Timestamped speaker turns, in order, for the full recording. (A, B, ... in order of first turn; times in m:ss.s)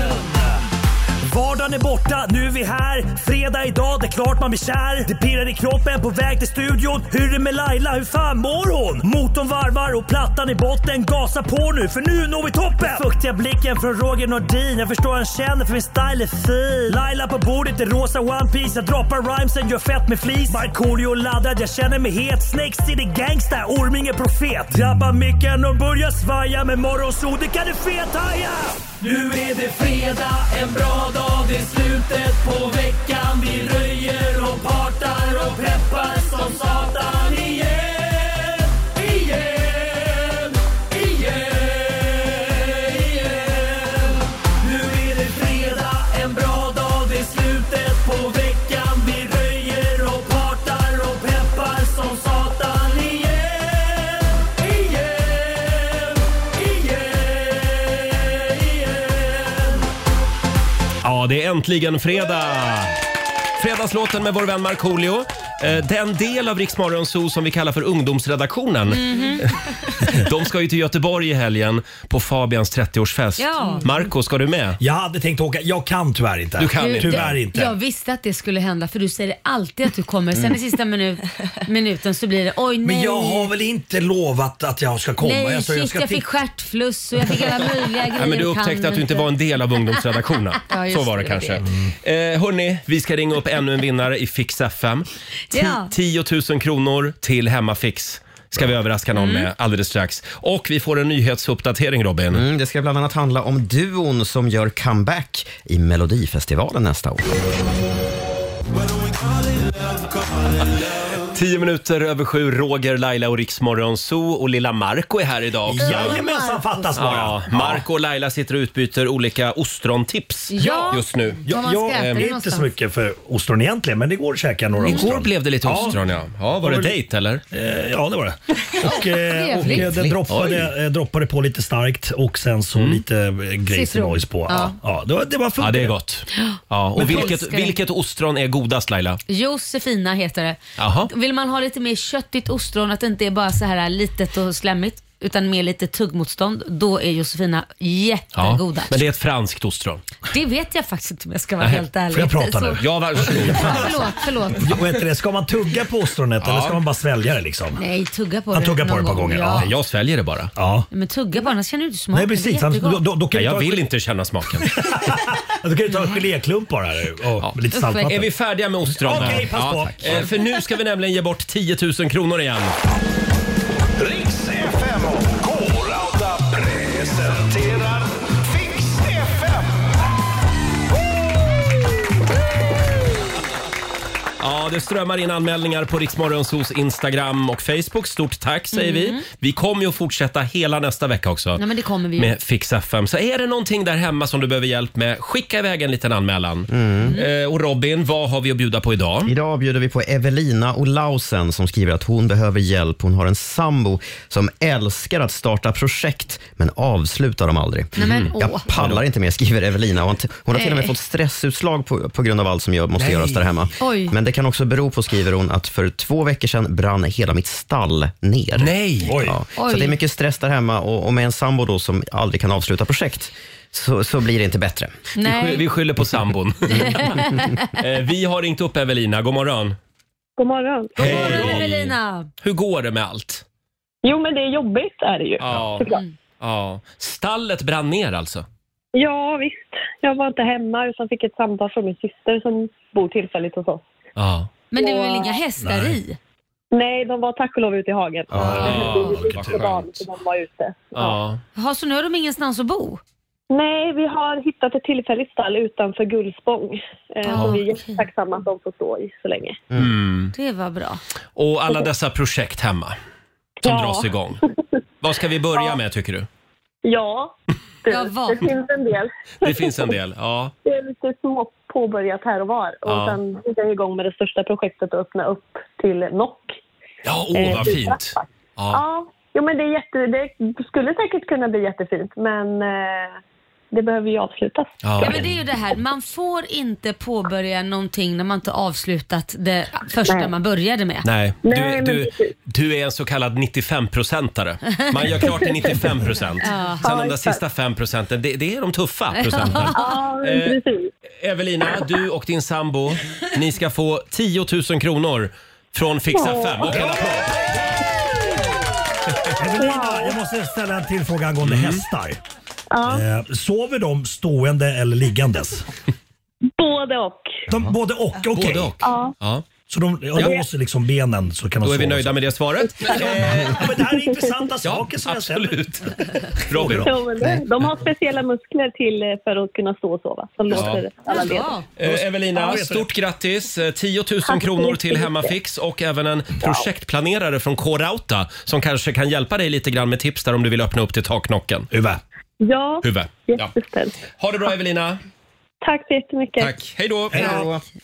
0:01.2-0:30.1 A
0:34.6-0:34.9 A
0:35.5-0:36.5 A
0:44.6-0:46.1 A
0:47.6-0:52.9 A
0:54.5-0:55.1 A
1:01.0-1:03.0 B
1:03.6-1:09.5 B
1:08.9-1:09.4 C
1:10.0-1:14.8 B
1:13.4-1:13.8 C
1:14.8-1:17.8 A
1:16.6-1:17.4 B
1:16.8-1:23.5 C
1:22.8-1:26.3 A
1:25.2-1:29.3 C
1:28.2-1:42.4 B
1:30.7-1:31.6 C
1:35.5-1:35.9 C
1:39.2-1:39.5 C
1:42.3-1:47.2 D
1:50.7-1:56.2 B
1:55.7-1:57.8 A
1:55.8-1:56.9 C
1:56.9-2:01.4 B
2:00.5-2:02.7 C
2:00.6-2:00.9 A
2:01.5-2:06.0 A
2:01.9-2:02.2 B
2:04.8-2:05.1 C
2:04.8-2:07.4 B
2:06.5-2:07.0 A
2:07.5-2:15.9 A
2:09.2-2:10.0 C
2:10.3-2:10.7 B
2:12.8-2:13.0 B
2:13.7-2:14.8 C
2:15.6-2:19.2 B
2:16.4-2:17.7 C
2:17.0-2:17.3 A
2:19.3-2:29.0 C
2:20.8-2:21.1 B
2:28.4-2:30.0 B
2:30.3-2:34.8 C
2:32.1-2:37.8 A
2:32.8-2:33.9 B
2:36.4-2:36.8 B
2:37.8-2:39.7 C
2:38.5-2:39.7 A
2:39.6-2:40.5 B
2:40.6-2:40.9 A
2:40.9-2:43.0 C
2:42.1-2:43.8 A
2:43.3-2:44.7 B
2:44.6-2:48.3 A
2:45.9-2:46.2 C
2:47.7-2:48.2 C
2:48.0-2:52.8 B
2:48.9-2:50.3 A
2:54.0-2:59.8 E
3:04.4-3:11.6 B
3:08.7-3:09.2 C
3:11.6-3:12.4 C
3:12.2-3:19.3 B
3:16.7-3:17.2 D
3:19.2-3:44.9 D
3:28.0-3:28.7 C
3:28.0-3:28.3 B
3:30.5-3:30.9 C
3:33.0-3:33.6 A
3:33.8-3:34.1 C
3:38.6-3:39.2 B
3:39.1-3:39.4 A
3:39.6-3:40.0 C
3:45.2-3:45.6 C
3:45.2-3:47.2 B
3:46.8-3:47.5 C
3:47.8-3:49.8 B
3:50.4-3:51.6 F
3:51.0-3:52.3 C
3:51.0-3:53.4 B
3:54.0-3:56.0 F
3:55.4-3:58.4 B
3:59.0-4:03.8 F
4:04.2-4:04.5 B
4:04.7-4:06.2 C
4:04.8-4:05.4 F
4:05.6-4:06.0 A
4:06.7-4:11.2 F
4:08.3-4:09.8 A
4:08.4-4:09.8 B
4:10.9-4:11.4 B
4:11.6-4:13.0 C
4:13.5-4:19.6 F
4:17.2-4:18.0 C
4:19.8-4:20.3 B
4:20.3-4:21.0 C
4:21.4-4:23.0 B
4:23.6-4:24.4 B
4:23.6-4:24.1 F
4:25.0-4:26.3 B
4:26.8-4:29.8 F
4:27.9-4:28.5 C
4:29.4-4:30.5 B
4:30.6-4:36.6 F
4:32.9-4:33.2 B
4:37.0-4:38.8 B
4:37.3-4:38.2 F
4:38.7-4:43.2 F
4:43.7-4:45.2 F
4:44.8-4:45.3 B
4:45.0-4:51.1 C
4:51.0-5:00.6 B
4:51.4-4:52.3 F
4:56.4-4:56.9 C
4:56.8-4:57.4 F
4:59.2-4:59.8 C
4:59.7-5:00.9 F
5:01.2-5:07.3 B
5:06.2-5:06.7 F
5:06.6-5:07.3 A
5:09.4-5:12.2 A
5:09.6-5:10.1 F
5:11.4-5:11.8 B
5:12.7-5:13.0 F
5:12.8-5:15.7 A
5:16.6-5:17.4 F
5:17.5-5:18.7 A
5:18.3-5:19.4 B
5:18.8-5:19.1 F
5:19.7-5:22.2 A
5:21.6-5:23.7 B
5:22.8-5:23.2 F
5:22.8-5:27.0 A
5:24.6-5:27.0 B
5:26.8-5:31.6 F
5:30.5-5:30.8 B
5:31.1-5:31.7 C
5:31.8-5:41.7 B
5:31.8-5:32.9 A
5:34.3-5:35.3 F
5:41.7-5:42.0 A
5:42.4-5:44.0 F
5:42.8-5:43.5 B
5:44.1-5:45.0 B
5:45.6-5:46.5 F
5:46.4-5:47.4 B
5:47.1-5:47.5 A
5:47.2-5:47.6 D